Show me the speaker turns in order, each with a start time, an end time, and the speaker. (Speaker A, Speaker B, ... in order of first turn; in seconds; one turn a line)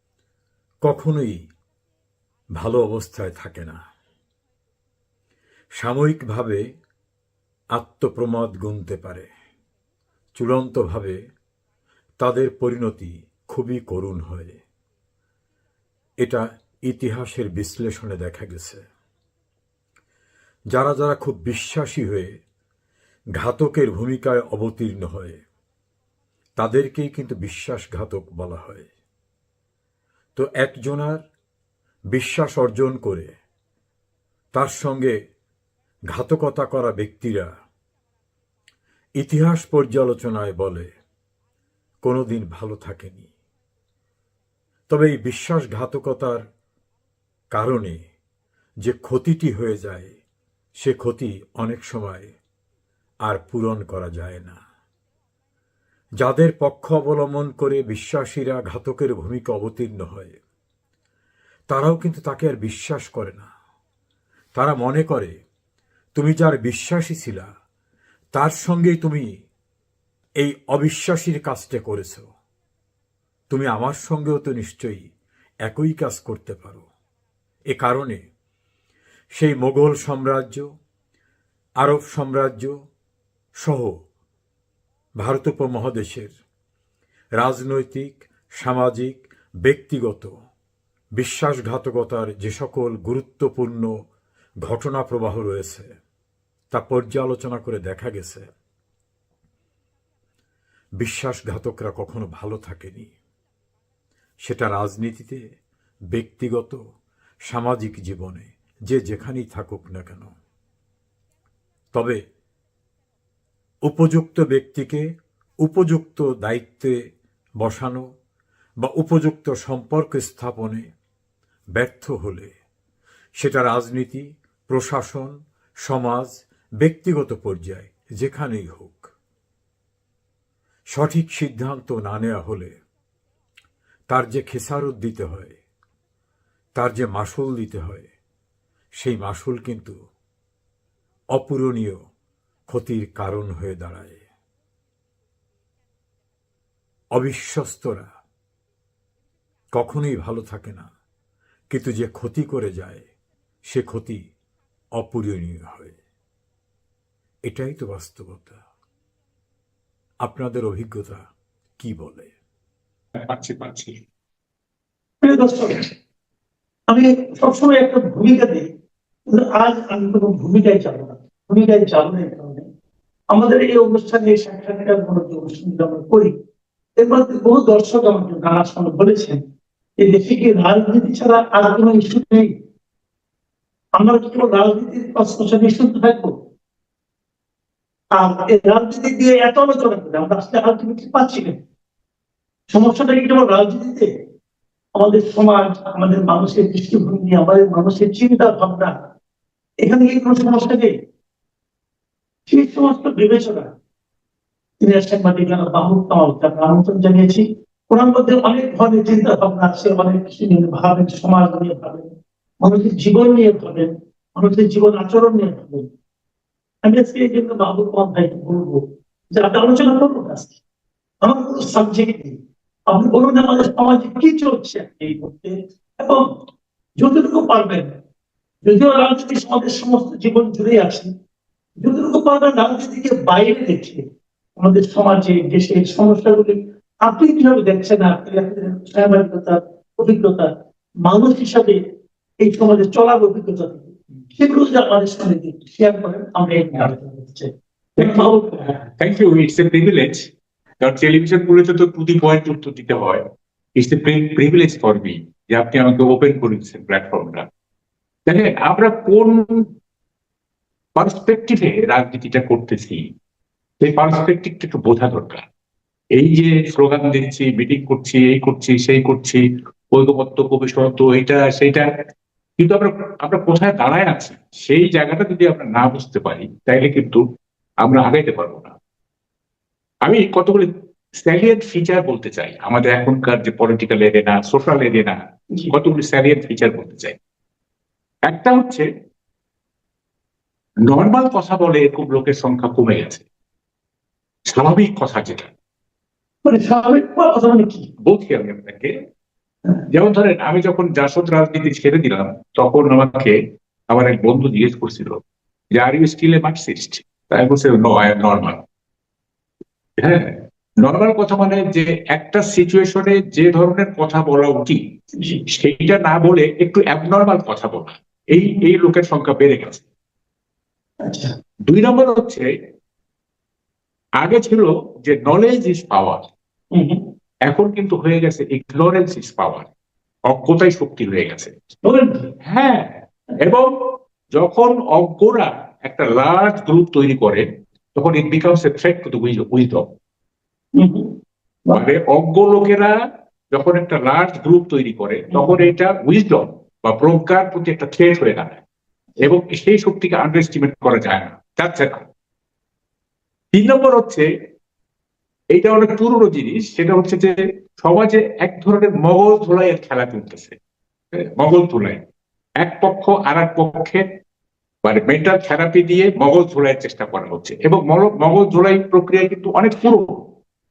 Speaker A: 0.8-1.4
Speaker A: 2.6-3.8
Speaker A: 5.8-6.6
Speaker A: 7.7-9.3
Speaker A: 10.3-11.2
Speaker A: 12.2-14.6
Speaker A: 16.2-18.8
Speaker A: 20.7-22.4
Speaker A: 23.4-25.4
Speaker A: 26.6-28.9
Speaker A: 30.4-31.2
Speaker A: 32.1-33.3
Speaker A: 34.5-35.1
Speaker A: 36.1-37.5
Speaker A: 39.2-40.9
Speaker A: 42.0-43.3
Speaker A: 44.9-46.4
Speaker A: 47.5-48.0
Speaker A: 48.8-50.2
Speaker A: 50.8-52.3
Speaker A: 53.3-54.6
Speaker A: 56.2-60.4
Speaker A: 61.7-63.5
Speaker A: 64.5-65.4
Speaker A: 66.1-67.5
Speaker A: 68.3-69.4
Speaker A: 70.4-72.3
Speaker A: 73.5-75.1
Speaker A: 75.7-76.8
Speaker A: 77.7-78.2
Speaker A: 79.3-80.7
Speaker A: 81.8-82.7
Speaker A: 83.6-84.0
Speaker A: 85.2-86.3
Speaker A: 87.4-90.3
Speaker A: 91.2-93.9
Speaker A: 94.6-95.9
Speaker A: 96.7-98.5
Speaker A: 101.0-103.1
Speaker A: 104.4-105.4
Speaker A: 106.1-106.8
Speaker A: 107.5-110.3
Speaker A: 111.9-112.2
Speaker A: 113.9-115.0
Speaker A: 115.6-117.0
Speaker A: 117.6-118.1
Speaker A: 118.8-120.9
Speaker A: 121.8-122.5
Speaker A: 123.4-129.1
Speaker A: 130.9-132.8
Speaker A: 134.1-135.6
Speaker A: 136.7-138.1
Speaker A: 139.0-139.9
Speaker A: 141.3-142.0
Speaker A: 142.7-144.2
Speaker A: 147.1-148.1
Speaker A: 149.7-150.9
Speaker A: 151.7-153.1
Speaker A: 153.7-154.2
Speaker A: 155.0-156.0
Speaker A: 157.5-158.6
Speaker A: 160.2-161.2
Speaker A: 161.8-162.3
Speaker B: 163.3-164.0
Speaker C: 165.2-165.8
Speaker C: 166.9-168.7
Speaker C: 169.3-172.6
Speaker C: 173.3-176.3
Speaker C: 177.0-179.4
Speaker C: 180.0-182.5
Speaker C: 184.0-186.3
Speaker C: 188.2-191.6
Speaker C: 192.7-194.1
Speaker C: 195.0-198.9
Speaker C: 199.8-200.9
Speaker C: 202.5-203.7
Speaker C: 204.8-212.1
Speaker C: 212.6-215.9
Speaker C: 216.8-218.8
Speaker C: 219.3-220.6
Speaker C: 221.2-222.3
Speaker C: 222.9-226.2
Speaker C: 227.0-227.9
Speaker C: 228.6-231.1
Speaker C: 231.8-234.0
Speaker C: 234.6-240.5
Speaker C: 241.0-241.8
Speaker C: 242.4-248.7
Speaker B: 248.0-250.3
Speaker B: 250.8-253.2
Speaker B: 253.8-257.4
Speaker B: 258.3-259.5
Speaker B: 261.0-263.0
Speaker B: 263.8-265.4
Speaker B: 266.2-269.4
Speaker B: 269.9-271.9
Speaker B: 272.6-277.2
Speaker B: 277.8-278.7
Speaker B: 280.0-280.7
Speaker B: 281.2-285.2
Speaker B: 285.7-287.1
Speaker B: 288.3-288.8
Speaker B: 290.9-293.2
Speaker B: 294.5-295.5
Speaker C: 296.4-297.9
Speaker B: 298.1-298.9
Speaker B: 299.9-303.3
Speaker B: 303.9-305.2
Speaker B: 305.8-308.6
Speaker B: 310.0-310.3
Speaker B: 310.8-314.8
Speaker B: 315.5-319.8
Speaker C: 318.3-318.6
Speaker C: 321.0-321.3
Speaker B: 321.7-322.5
Speaker B: 324.2-326.3
Speaker C: 326.7-327.0
Speaker B: 327.5-329.7
Speaker B: 330.3-331.5
Speaker C: 331.8-332.3
Speaker B: 332.5-332.9
Speaker B: 334.4-339.9
Speaker C: 340.8-341.1
Speaker B: 341.7-342.9
Speaker B: 343.5-348.6
Speaker C: 345.3-345.7
Speaker B: 349.2-352.1
Speaker B: 353.5-354.2
Speaker B: 355.5-360.6
Speaker B: 361.1-362.0
Speaker B: 362.6-364.0
Speaker B: 364.8-370.2